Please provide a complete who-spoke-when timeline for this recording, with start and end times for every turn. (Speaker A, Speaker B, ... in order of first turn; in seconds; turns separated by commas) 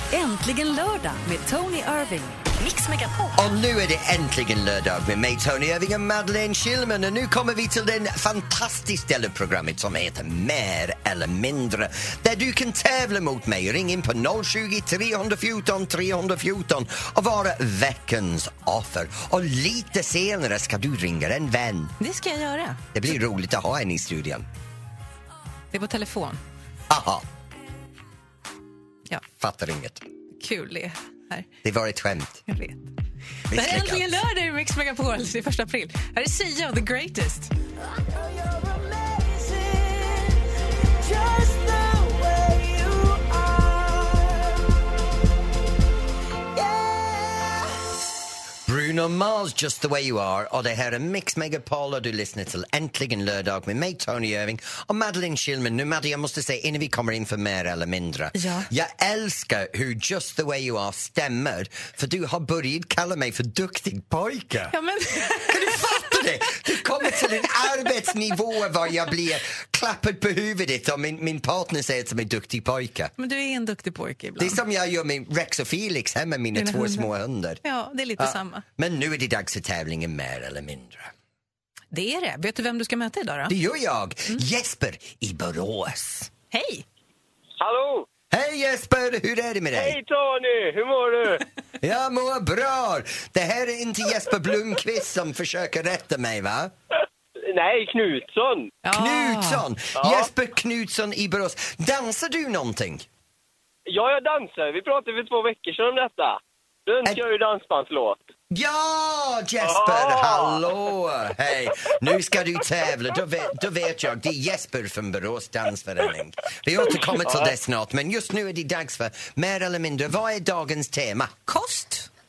Speaker A: 0.1-3.4, Speaker B: 3.4-21.9, Speaker C: 22.0-22.9, Speaker B: 22.9-24.5, Speaker C: 25.7-26.4, Speaker B: 26.9-27.2, Speaker B: 29.4-30.0, Speaker C: 30.4-31.5, Speaker B: 31.6-32.4, Speaker C: 32.5-32.9, Speaker B: 33.5-34.2, Speaker C: 33.5-37.5, Speaker B: 48.7-73.1, Speaker C: 58.4-58.7, Speaker C: 64.7-66.5, Speaker C: 73.2-74.6, Speaker B: 74.4-77.6, Speaker C: 76.5-77.1, Speaker C: 77.6-78.7, Speaker B: 78.2-81.1, Speaker C: 81.9-83.6, Speaker B: 83.5-86.3, Speaker C: 86.5-86.8, Speaker D: 87.6-88.1, Speaker B: 88.3-90.0, Speaker D: 89.7-91.5, Speaker B: 91.8-96.7, Speaker D: 97.4-98.8, Speaker C: 98.8-99.7, Speaker B: 98.9-103.1, Speaker D: 100.0-100.3, Speaker D: 103.9-108.2, Speaker B: 108.5-121.3, Speaker D: 109.6-110.6, Speaker D: 117.2-117.5, Speaker C: 121.5-122.1